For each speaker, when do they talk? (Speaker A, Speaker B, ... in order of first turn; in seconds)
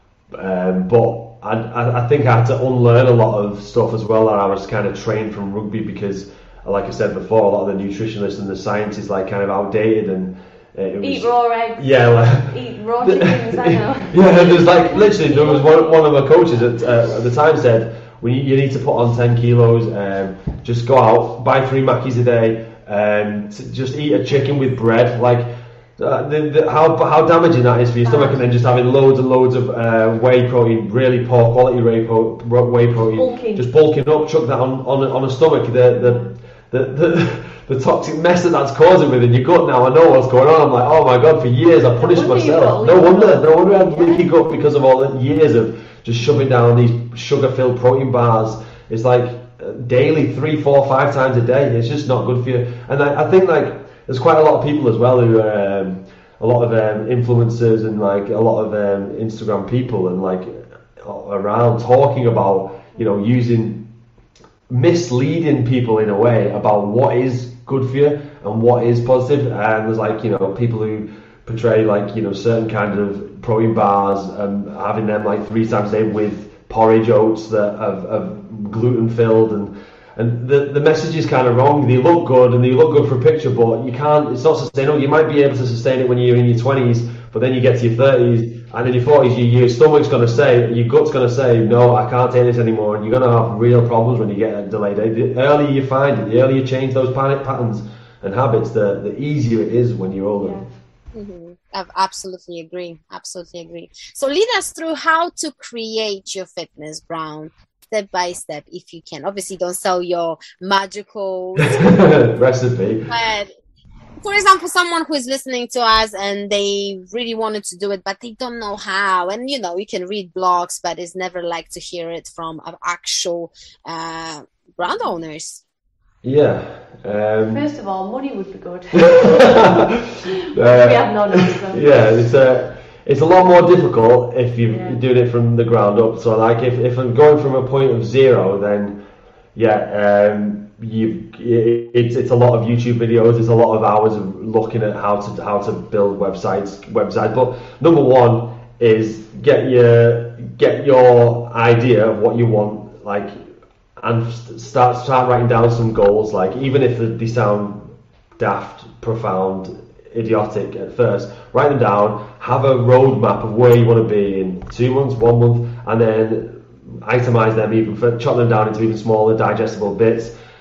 Speaker A: 0.3-25.5, 26.0-63.8, 64.7-100.7, 111.6-113.1, 126.2-127.6, 129.0-138.9, 139.5-153.4, 154.0-170.3
Speaker B: 11.0-16.0, 28.0-28.4, 33.1-33.6, 36.0-36.3, 42.0-44.3, 100.4-100.7, 127.5-131.9, 134.7-135.0
Speaker C: 101.1-112.0, 113.1-113.5, 114.2-125.6